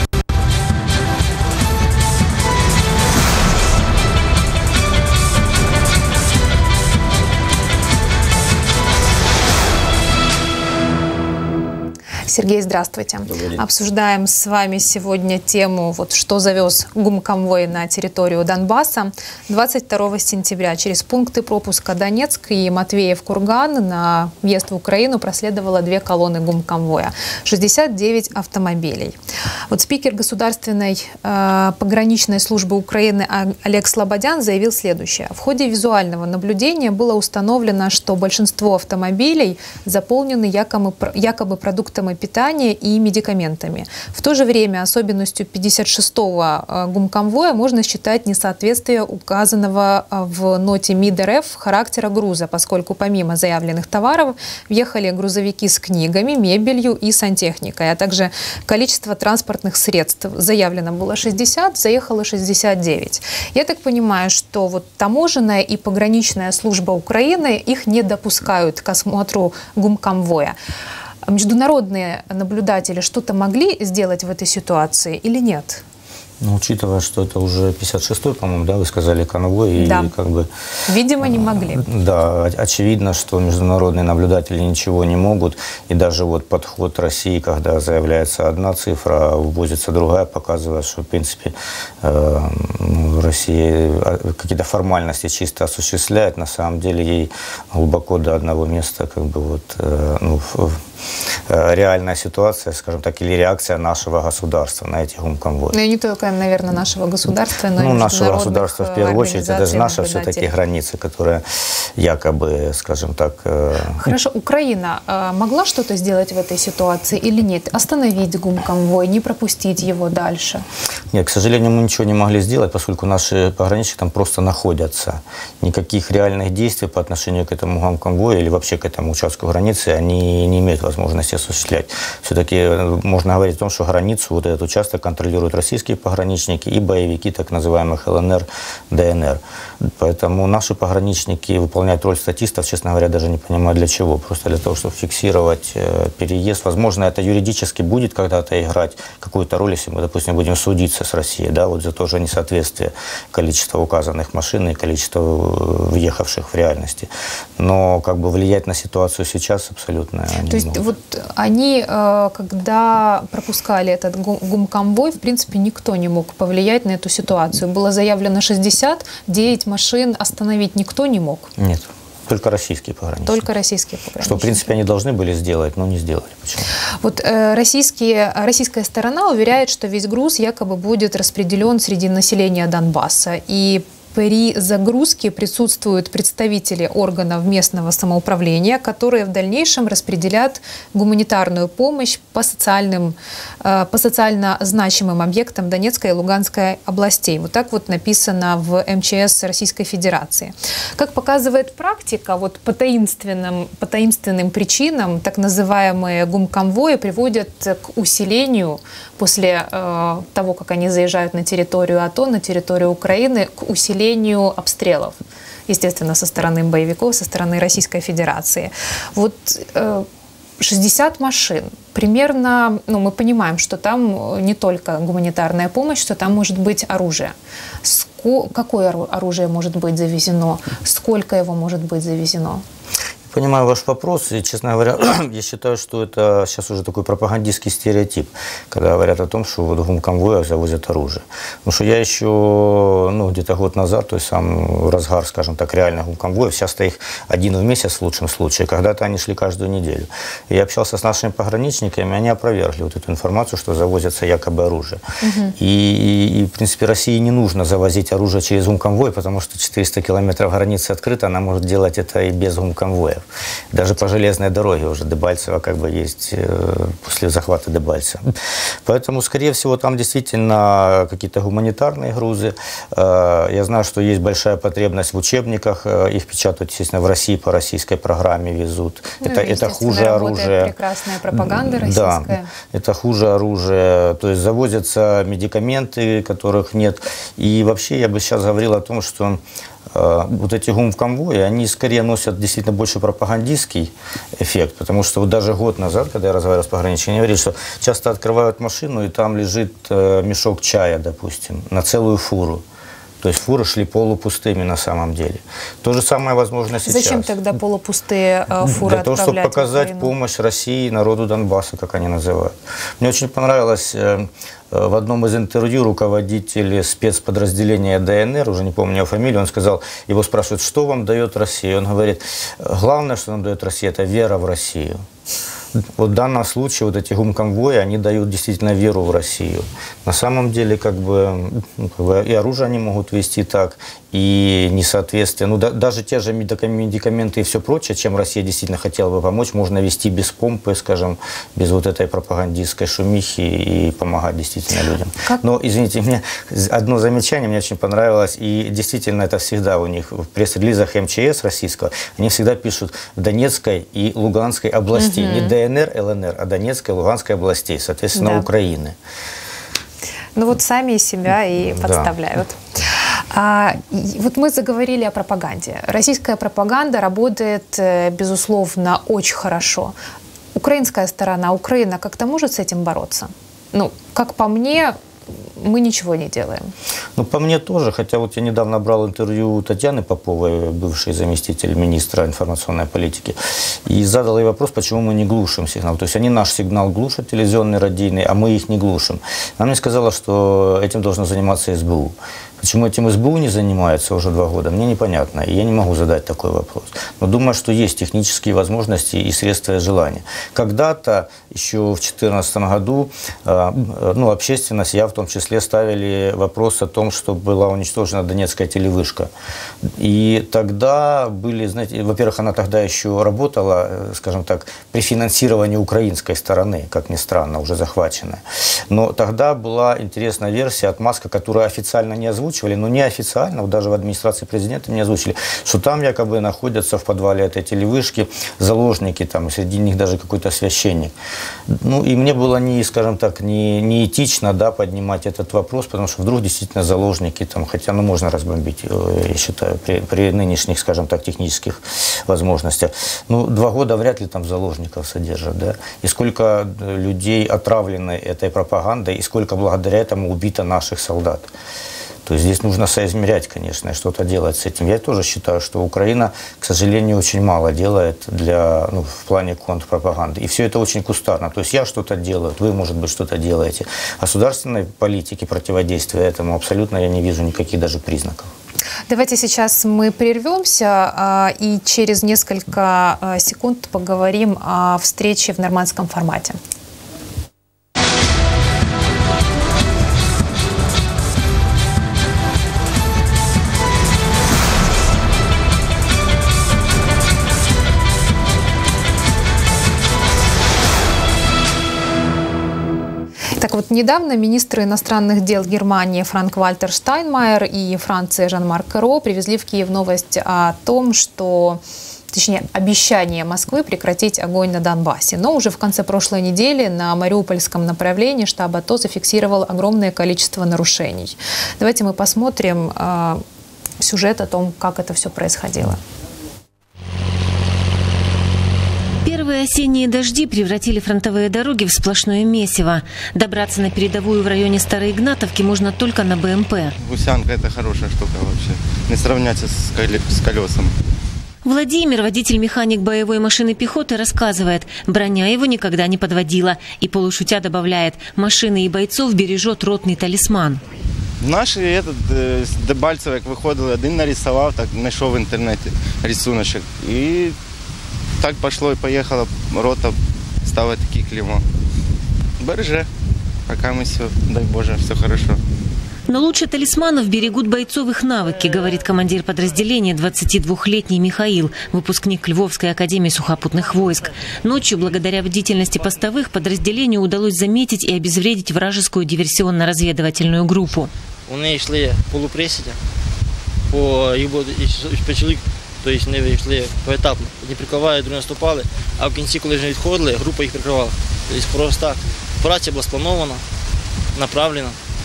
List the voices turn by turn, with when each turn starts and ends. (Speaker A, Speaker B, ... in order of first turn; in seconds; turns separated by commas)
Speaker A: 12.3-29.1, Speaker B: 13.2-13.6, Speaker A: 29.7-70.5, Speaker A: 71.3-75.8, Speaker B: 76.4-80.5, Speaker A: 79.8-80.1, Speaker A: 80.9-81.8, Speaker B: 81.8-100.8, Speaker B: 101.5-105.8, Speaker A: 105.7-110.5, Speaker B: 107.8-111.4, Speaker B: 112.0-114.1, Speaker A: 114.0-120.6, Speaker B: 121.1-160.8, Speaker A: 160.5-171.5, Speaker B: 171.6-173.4, Speaker A: 173.2-174.7, Speaker B: 174.2-176.7, Speaker A: 177.0-215.2, Speaker A: 215.7-220.1, Speaker A: 220.6-232.6, Speaker B: 233.3-255.0, Speaker A: 255.2-255.5, Speaker B: 255.6-268.3, Speaker B: 268.8-280.7, Speaker A: 279.2-282.5, Speaker B: 281.3-302.6, Speaker B: 303.2-307.4, Speaker A: 306.8-310.1, Speaker B: 308.6-325.0, Speaker B: 325.8-358.9, Speaker A: 354.9-355.5, Speaker A: 358.1-358.5, Speaker A: 360.4-369.9, Speaker B: 361.7-362.1, Speaker A: 370.5-374.9, Speaker A: 375.6-376.7, Speaker B: 377.1-409.3, Speaker B: 410.0-431.1, Speaker B: 431.7-451.5, Speaker B: 452.2-468.5, Speaker A: 469.1-476.6, Speaker A: 493.6-501.8, Speaker A: 502.3-513.4, Speaker A: 514.0-516.0, Speaker C: 519.2-526.9, Speaker D: 527.0-530.9, Speaker C: 531.6-540.8, Speaker D: 541.4-547.5, Speaker D: 548.4-551.6, Speaker D: 552.6-553.1, Speaker D: 553.7-555.6, Speaker C: 556.3-571.1, Speaker E: 571.5-573.0, Speaker E: 573.9-583.6, Speaker E: 584.3-585.0